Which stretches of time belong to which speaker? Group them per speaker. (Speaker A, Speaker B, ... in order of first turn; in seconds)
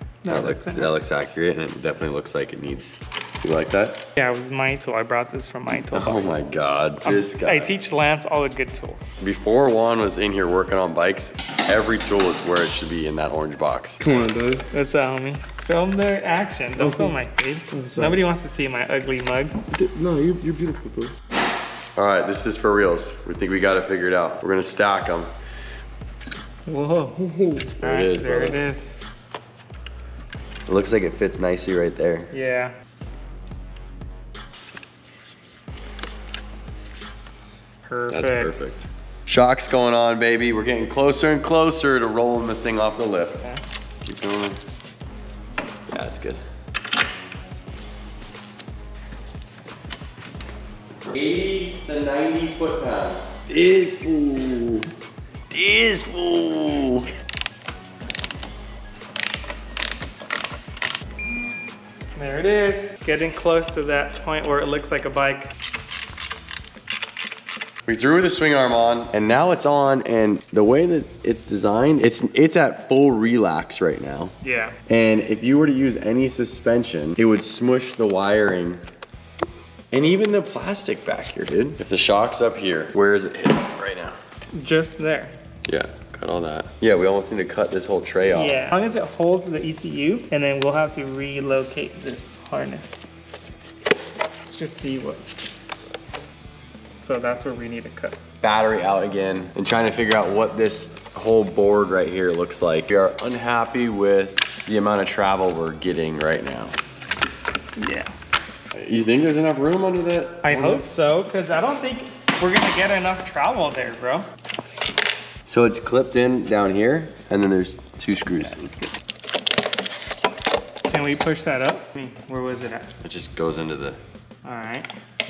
Speaker A: 0.2-0.9, 4.2-6.4, 7.0-9.0, 14.7-19.6, 26.7-27.3, 27.8-28.9, 32.3-32.7, 37.9-38.5, 62.1-65.5, 74.4-74.8, 84.5-85.3, 88.3-93.0, 94.5-95.2, 97.0-98.2, 107.8-108.1, 110.4-114.3, 118.5-118.9, 120.9-122.9, 124.4-124.9
Speaker B: 0.3-4.1, 5.9-7.8, 9.2-14.0, 22.0-25.3, 27.8-28.6, 30.7-32.3, 38.1-43.4, 44.0-44.6, 45.9-46.4, 51.0-54.9, 55.5-57.1, 67.9-74.3, 74.9-78.8, 79.9-84.2, 85.7-88.6, 98.4-106.8, 108.7-110.9, 115.5-118.8, 123.0-124.0
Speaker C: 14.0-14.7, 16.8-17.2, 17.7-18.2, 19.7-21.1, 27.2-27.7